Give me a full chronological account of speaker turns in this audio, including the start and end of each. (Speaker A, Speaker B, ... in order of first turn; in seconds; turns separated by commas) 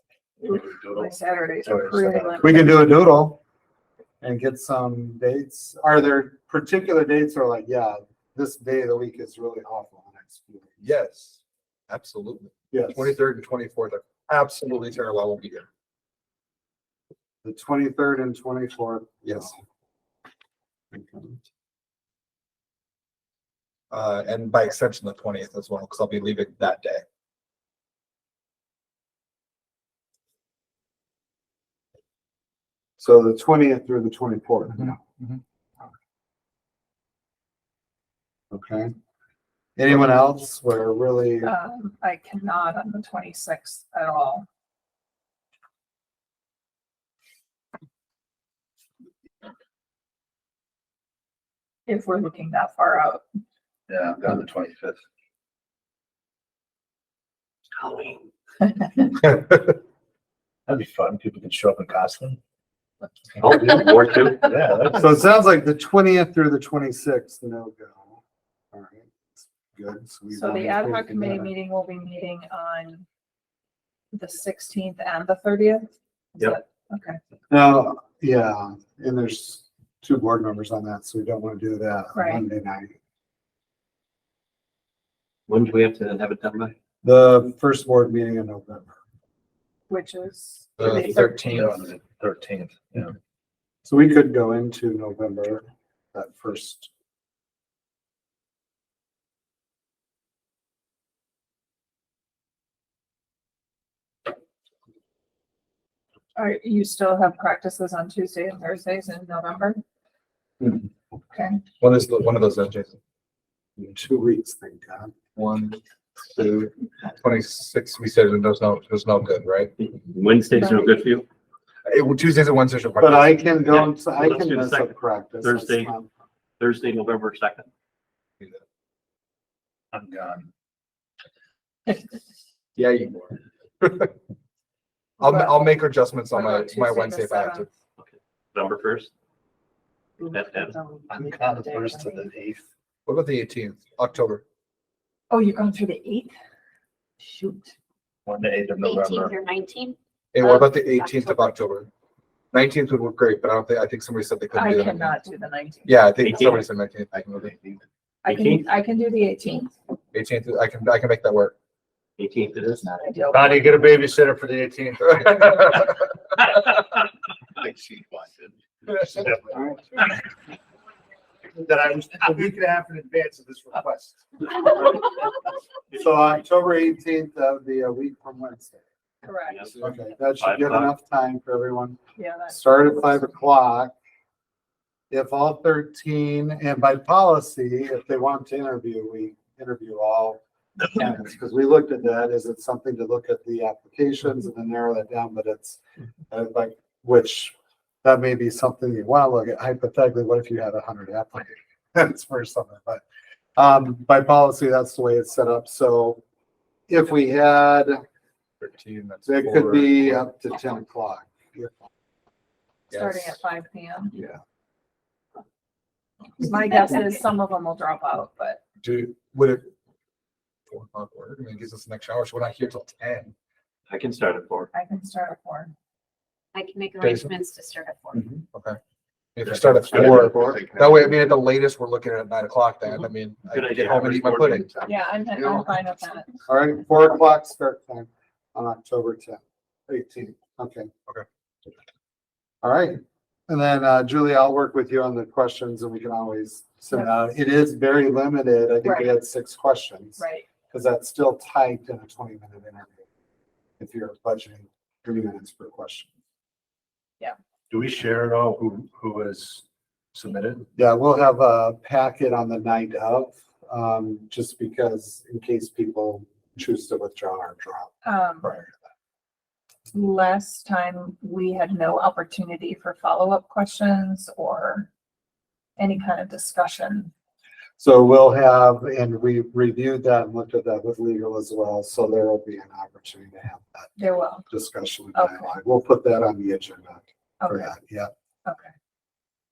Speaker A: 0.4-2.6, Speaker B: 0.5-2.6, Speaker C: 2.4-3.4, Speaker C: 4.2-10.8, Speaker D: 10.8-15.7, Speaker C: 12.7-13.2, Speaker C: 17.4-19.6, Speaker D: 19.2-19.5, Speaker C: 20.9-21.4, Speaker D: 23.9-27.0, Speaker C: 33.0-35.0, Speaker D: 34.7-35.4, Speaker C: 38.5-38.9, Speaker C: 39.8-41.5, Speaker A: 41.4-44.5, Speaker A: 51.9-53.2, Speaker B: 53.9-55.0, Speaker E: 57.8-58.2, Speaker A: 58.7-59.1, Speaker B: 60.7-62.4, Speaker E: 63.4-64.4, Speaker B: 64.4-65.1, Speaker C: 64.8-68.2, Speaker C: 68.7-71.5, Speaker A: 70.3-73.0, Speaker A: 74.1-77.2, Speaker C: 77.5-82.9, Speaker A: 82.1-82.4, Speaker E: 85.5-86.7, Speaker C: 87.0-89.0, Speaker A: 89.9-91.8, Speaker D: 90.8-91.7, Speaker B: 91.4-93.1, Speaker C: 93.8-96.9, Speaker A: 106.3-109.8, Speaker A: 111.3-111.6, Speaker D: 111.8-113.0, Speaker C: 113.8-115.1, Speaker D: 115.3-119.7, Speaker E: 119.8-121.3, Speaker A: 120.5-121.0, Speaker D: 121.8-123.6, Speaker C: 123.0-126.1, Speaker E: 123.7-125.9, Speaker E: 126.6-127.7, Speaker B: 129.9-130.5, Speaker D: 132.8-134.1, Speaker A: 135.2-135.7, Speaker D: 135.2-137.7, Speaker A: 136.3-137.7, Speaker E: 138.0-139.1, Speaker A: 140.2-142.3, Speaker E: 140.3-140.8, Speaker B: 141.1-142.6, Speaker D: 143.1-144.4, Speaker A: 145.3-146.3, Speaker A: 147.2-147.7, Speaker B: 148.2-149.3, Speaker F: 148.8-151.5, Speaker D: 150.3-151.9, Speaker D: 152.5-155.1, Speaker A: 154.5-156.0, Speaker D: 155.8-157.6, Speaker E: 156.2-156.6, Speaker A: 158.2-159.7, Speaker E: 158.2-158.7, Speaker D: 160.1-161.5, Speaker E: 162.2-162.8, Speaker A: 162.7-163.8, Speaker B: 163.3-165.7, Speaker D: 165.2-165.8, Speaker B: 167.6-169.8, Speaker B: 171.5-174.4, Speaker C: 175.9-178.8, Speaker A: 179.2-179.7, Speaker E: 179.5-179.8, Speaker C: 179.8-183.9, Speaker E: 180.3-180.9, Speaker A: 182.2-183.2, Speaker C: 185.1-203.0, Speaker C: 203.6-206.2, Speaker C: 206.9-208.0, Speaker D: 208.6-210.3, Speaker C: 209.2-211.7, Speaker A: 212.9-214.1, Speaker D: 212.9-213.4, Speaker A: 216.4-218.6, Speaker D: 218.8-219.7, Speaker D: 220.7-223.3, Speaker E: 223.9-224.7, Speaker A: 224.7-225.7, Speaker F: 226.5-228.3, Speaker D: 227.0-227.3, Speaker D: 228.5-228.8, Speaker D: 229.3-234.7, Speaker E: 229.9-230.8, Speaker E: 233.5-234.9, Speaker A: 234.8-236.4, Speaker C: 236.4-240.9, Speaker C: 242.6-253.0, Speaker A: 246.9-247.2, Speaker A: 250.2-250.5, Speaker C: 253.8-256.1, Speaker B: 257.7-259.6, Speaker B: 260.1-260.7, Speaker C: 260.8-267.9, Speaker A: 268.0-268.6, Speaker A: 269.9-274.9, Speaker A: 275.8-277.1, Speaker C: 277.8-283.9, Speaker A: 284.0-284.5, Speaker C: 284.5-288.1, Speaker A: 285.1-285.5, Speaker A: 287.4-287.7, Speaker A: 288.4-288.7